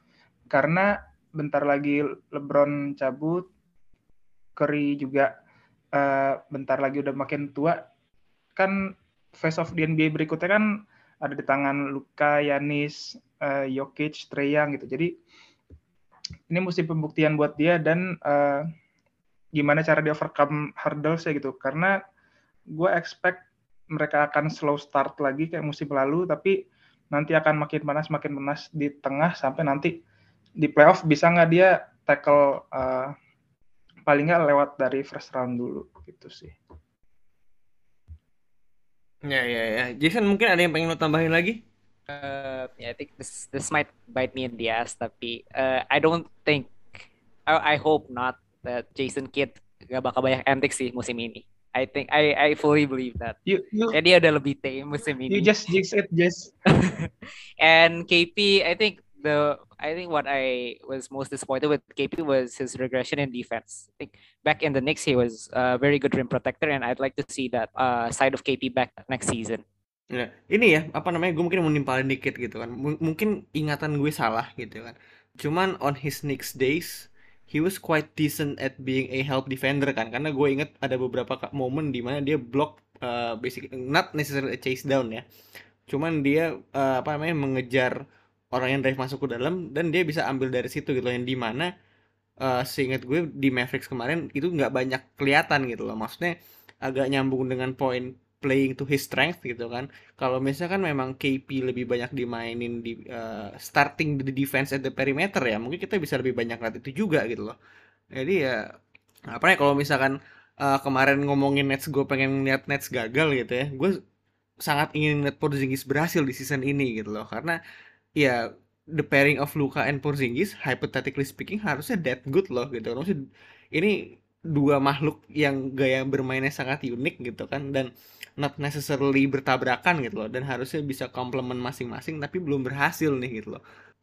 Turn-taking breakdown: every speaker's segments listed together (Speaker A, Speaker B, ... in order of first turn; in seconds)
Speaker A: 0.5-3.5, 4.6-5.3, 6.0-7.8, 9.4-10.6, 11.2-15.1, 16.5-18.6, 19.5-21.9, 22.7-26.5, 27.1-29.9, 30.6-33.1, 34.1-36.5, 53.5-54.0, 55.3-56.5
Speaker B: 39.3-41.6, 70.1-85.2, 85.9-88.0, 88.5-91.7, 92.4-107.6, 108.1-108.6, 109.3-113.9, 114.6-117.6, 118.9-123.2, 124.5-133.6
Speaker C: 42.1-46.7, 47.5-53.4, 53.9-55.5, 56.8-69.6